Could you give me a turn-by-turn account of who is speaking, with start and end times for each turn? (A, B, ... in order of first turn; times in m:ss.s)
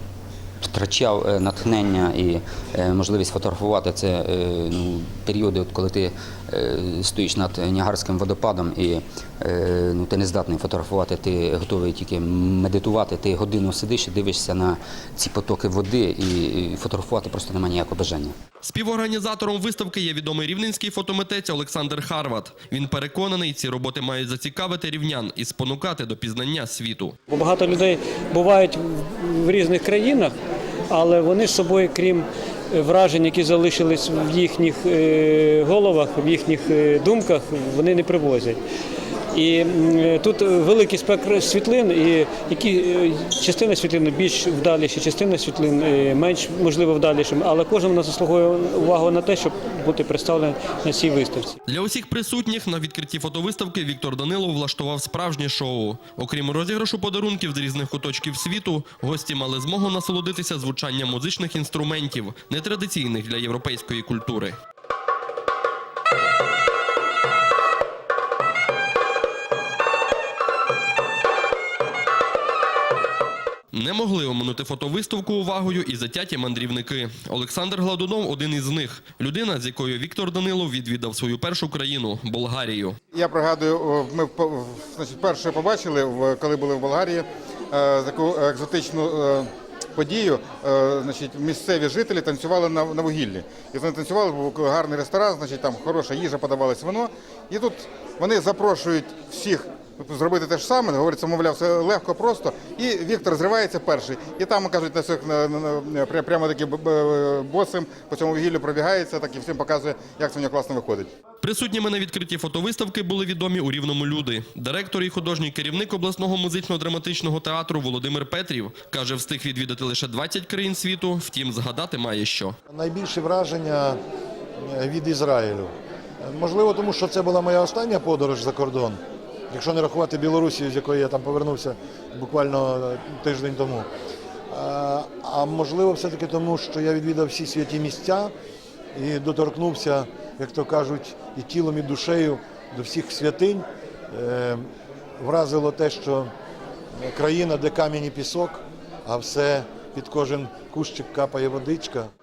0:00.6-0:18.3 A
0:18.6-0:27.1 B
0:27.3-0:30.3 C
0:30.9-0:38.6 C
0:39.3-0:51.6 C
0:51.7-1:04.6 B
1:13.7-1:23.0 B
1:23.1-1:51.1 D
1:51.4-2:02.6 B
2:02.7-2:03.9 E
2:04.7-2:05.7 E
2:06.4-2:08.9 E
2:09.5-2:11.4 E
2:12.2-2:13.8 E
2:14.5-2:18.3 E
2:19.0-2:24.6 E
2:25.2-2:26.3 E
2:27.0-2:32.1 E